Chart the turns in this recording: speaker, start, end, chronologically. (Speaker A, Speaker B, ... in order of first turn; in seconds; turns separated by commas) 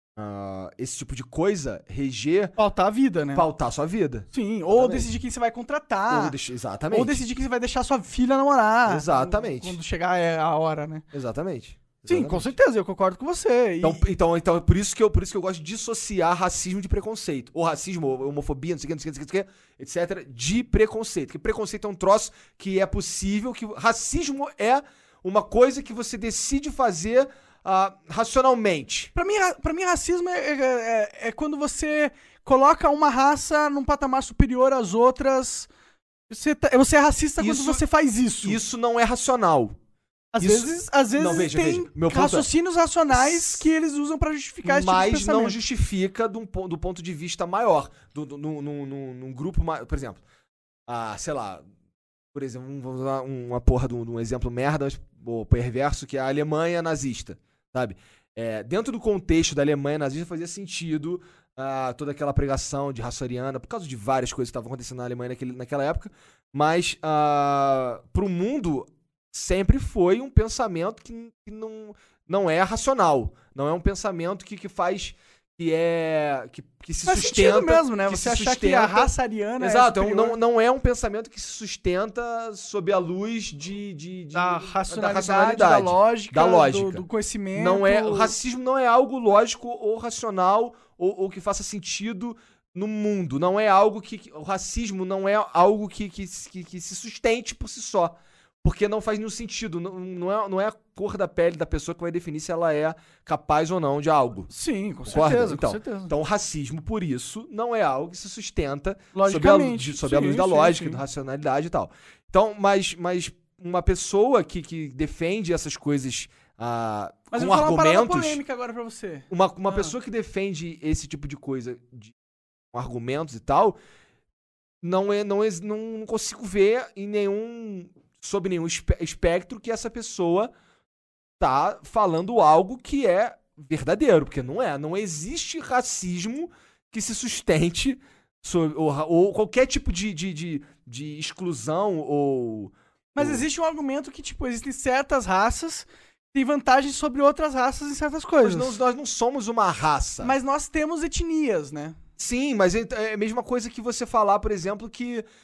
Speaker A: 0.2-2.6, Speaker B: 2.6-3.5, Speaker A: 3.3-5.1, Speaker B: 4.3-6.4, Speaker A: 6.1-7.2, Speaker B: 6.9-11.1, Speaker A: 8.9-9.8, Speaker A: 11.1-12.5, Speaker B: 12.1-14.0, Speaker A: 13.8-29.1, Speaker B: 29.1-35.7, Speaker B: 36.3-38.6, Speaker A: 37.4-37.8, Speaker A: 38.4-39.8, Speaker B: 40.3-45.6, Speaker A: 40.4-42.5, Speaker A: 43.1-43.7, Speaker A: 44.6-50.2, Speaker A: 50.9-51.7, Speaker A: 52.3-104.5, Speaker B: 77.0-80.4, Speaker B: 84.3-88.3, Speaker B: 104.5-106.1, Speaker A: 105.1-118.4, Speaker B: 109.1-111.0, Speaker B: 117.3-119.9, Speaker A: 119.3-122.1, Speaker A: 122.7-123.8, Speaker A: 124.8-130.5, Speaker A: 131.4-143.4, Speaker B: 143.2-148.8, Speaker A: 148.4-150.3, Speaker B: 150.2-152.0, Speaker A: 152.2-155.3